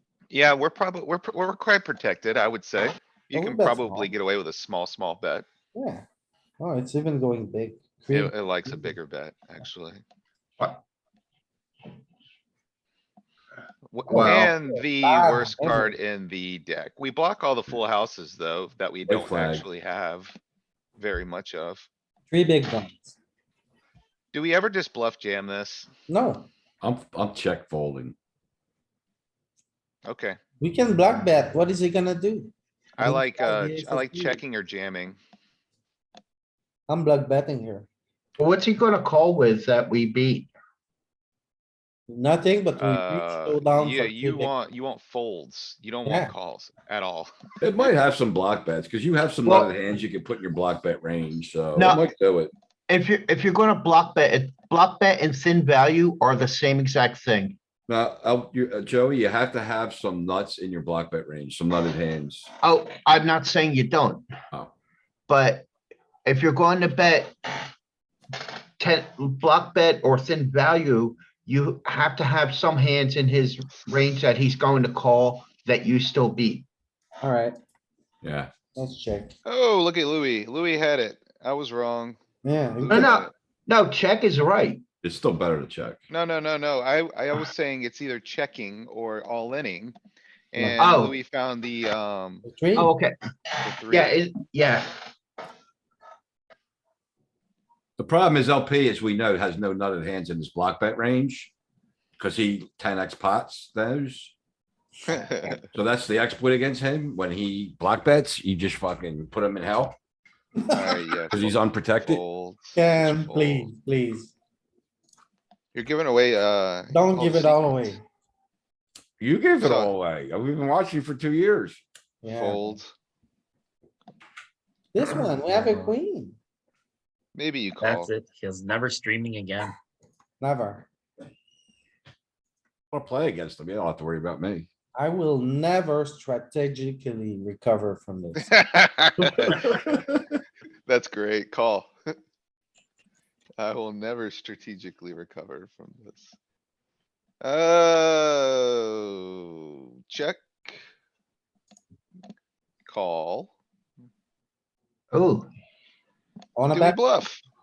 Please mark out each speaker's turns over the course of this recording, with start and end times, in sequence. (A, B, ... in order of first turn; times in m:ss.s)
0:00.3-0:05.5 A
0:03.3-0:04.1 B
0:05.7-0:06.0 B
0:06.6-0:09.0 B
0:08.1-0:10.0 A
0:13.9-0:20.4 A
0:14.1-0:14.5 C
0:14.1-0:15.9 B
0:19.0-0:19.6 D
0:21.0-0:21.9 A
0:22.3-0:23.2 B
0:24.3-0:25.9 A
0:26.1-0:26.5 B
0:26.8-0:28.1 D
0:30.0-0:30.4 A
0:30.6-0:34.4 B
0:33.0-0:35.2 A
0:36.9-0:37.9 B
0:38.4-0:40.5 C
0:42.1-0:44.5 B
0:42.8-0:47.3 A
0:46.0-0:46.3 B
0:47.6-0:52.5 D
0:49.4-0:49.7 C
0:51.7-0:52.0 C
0:52.9-0:57.6 C
0:57.9-1:02.5 D
1:02.6-1:04.2 C
1:05.3-1:05.7 C
1:06.2-1:07.7 C
1:08.8-1:16.6 C
1:17.2-1:17.6 B
1:18.2-1:18.5 D
1:18.7-1:19.4 B
1:19.4-1:22.2 A
1:22.4-1:23.1 B
1:22.8-1:23.3 A
1:22.9-1:24.8 C
1:25.0-1:26.0 D
1:26.1-1:30.0 A
1:30.5-1:32.5 A
1:30.6-1:30.9 B
1:30.8-1:31.2 C
1:32.4-1:32.9 B
1:32.8-1:33.2 C
1:33.6-1:34.2 A
1:33.7-1:35.1 C
1:38.0-1:41.5 D
1:42.2-1:44.3 D
1:45.1-1:45.6 A
1:45.7-1:50.0 D
1:50.7-1:53.7 A
1:51.3-1:52.2 D
1:52.8-1:54.3 B
1:55.7-1:57.9 A
1:56.9-1:58.0 B
1:59.2-2:01.8 D
1:59.6-1:59.9 A
2:02.2-2:02.8 B
2:02.3-2:02.9 A
2:04.9-2:06.4 B
2:05.5-2:05.9 E
2:07.3-2:08.1 A
2:07.8-2:09.7 E
2:10.4-2:10.9 B
2:12.9-2:14.7 D
2:14.9-2:18.5 B
2:18.4-2:19.9 A
2:20.9-2:21.9 A
2:23.6-2:26.3 A
2:27.4-2:30.8 A
2:32.8-2:33.5 A
2:35.1-2:35.5 C
2:36.6-2:37.0 B
2:36.7-2:37.4 A